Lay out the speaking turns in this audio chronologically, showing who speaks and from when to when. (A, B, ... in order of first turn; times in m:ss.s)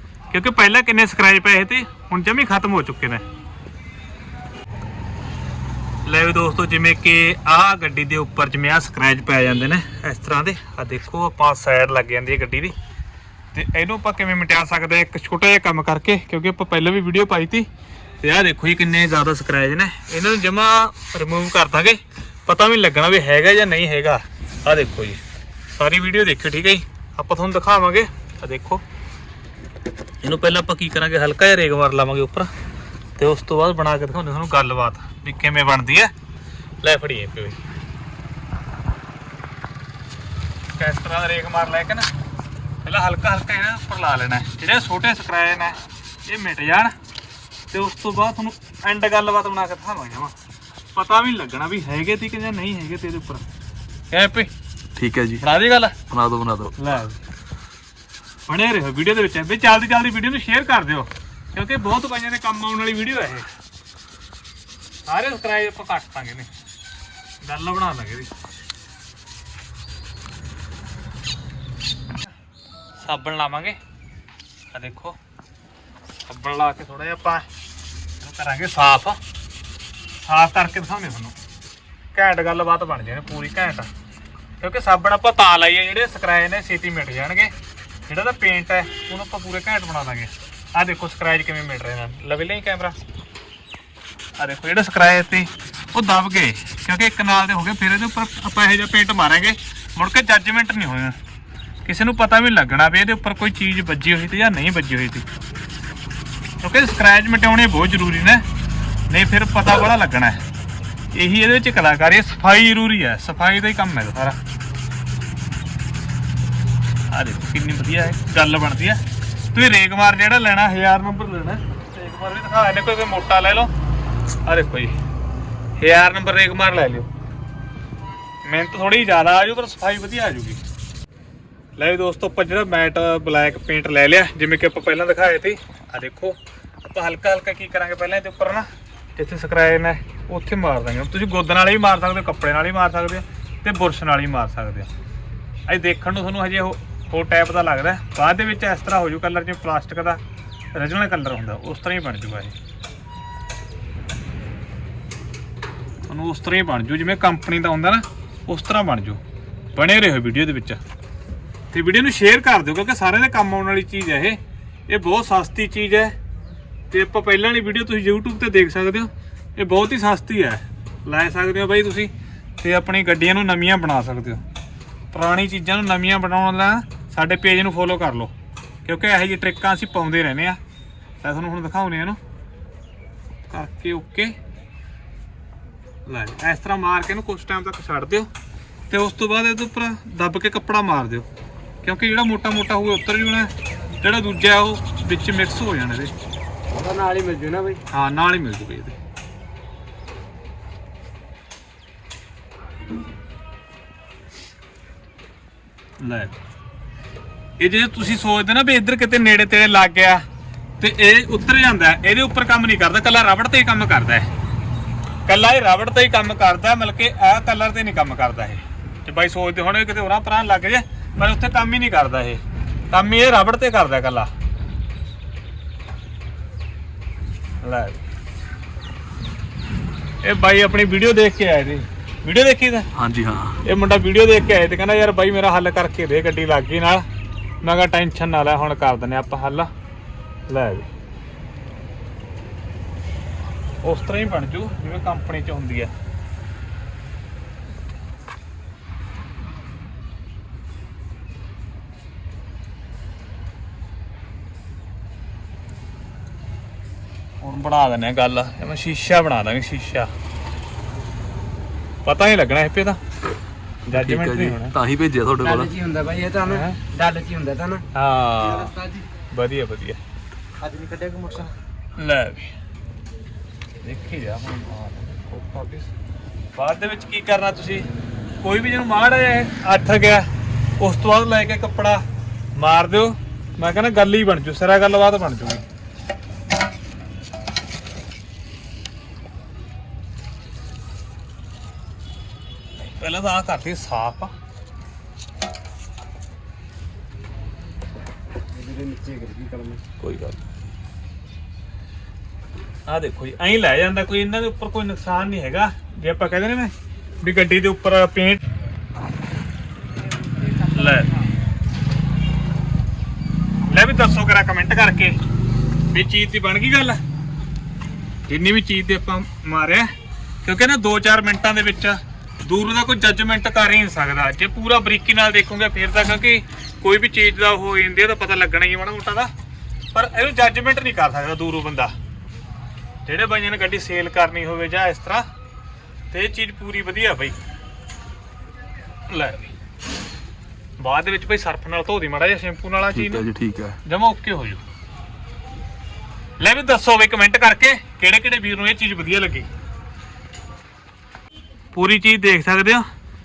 0:00.3-0:03.2 A
0:06.0-0:12.7 A
0:13.5-0:17.7 A
0:18.2-0:25.2 A
0:25.7-0:28.8 A
0:30.2-0:32.5 A
0:33.2-0:36.1 A
0:36.8-0:37.6 A
0:40.7-0:42.1 A
0:42.8-0:46.9 A
0:47.7-0:50.3 A
0:50.9-0:53.4 A
0:54.1-0:54.5 A
0:55.0-0:55.4 B
0:55.4-0:56.0 A
0:56.1-0:56.7 B
0:56.8-0:57.2 A
0:58.5-1:03.5 A
1:05.0-1:06.5 A
1:07.4-1:08.3 A
1:13.0-1:13.8 A
1:14.7-1:15.2 A
1:16.3-1:17.4 A
1:18.2-1:19.2 A
1:20.2-1:21.4 A
1:22.1-1:23.9 A
1:24.6-1:27.5 A
1:28.1-1:33.0 A
1:34.4-1:41.2 A
1:41.8-1:45.3 A
1:46.6-1:48.4 A
1:49.1-1:50.4 A
1:51.1-1:54.4 A
1:57.1-2:03.7 A
2:04.4-2:04.9 A
2:05.8-2:07.1 A
2:08.4-2:10.6 A
2:11.8-2:24.9 A
2:25.7-2:30.2 A
2:30.7-2:32.6 A
2:36.1-2:39.2 A
2:39.7-2:40.8 A
2:41.7-2:46.1 A
2:46.9-2:54.4 A
2:55.1-2:58.3 A
2:58.8-3:00.6 A
3:01.2-3:02.2 A
3:03.5-3:04.3 A
3:06.0-3:08.3 A
3:08.9-3:11.3 A
3:11.8-3:16.1 A
3:16.7-3:17.8 C
3:17.9-3:19.0 A
3:26.0-3:26.3 A
3:27.6-3:30.2 A
3:30.8-3:34.3 A
3:35.2-3:44.3 A
3:47.6-3:48.0 A
3:50.2-3:52.9 A
3:53.0-3:53.6 B
3:53.6-3:57.0 A
3:57.6-3:59.7 A
4:00.5-4:00.9 A
4:03.8-4:05.9 A
4:17.4-4:20.1 A
4:22.0-4:23.0 A
4:23.9-4:24.7 A
4:23.9-4:25.7 B
4:25.4-4:27.8 C
4:26.4-4:26.8 A
4:27.9-4:28.8 A
4:29.3-4:30.0 A
4:30.6-4:31.4 C
4:32.0-4:32.5 A
4:33.8-4:35.9 A
4:36.6-4:37.9 A
4:38.4-4:40.3 A
4:40.8-4:42.0 A
4:42.6-4:45.6 A
4:52.8-4:54.3 A
4:58.5-4:59.8 C
5:00.0-5:00.4 A
5:02.9-5:08.4 A
5:10.6-5:11.2 A
5:13.7-5:15.2 A
5:15.9-5:17.0 A
5:18.3-5:19.9 A
5:20.4-5:29.3 A
5:29.9-5:31.9 A
5:33.0-5:35.3 A
5:36.1-5:37.3 A
5:39.1-5:39.5 A
5:40.8-5:43.2 A
5:42.9-5:43.8 B
5:43.8-5:44.6 A
5:46.4-5:49.5 A
5:51.7-5:52.8 A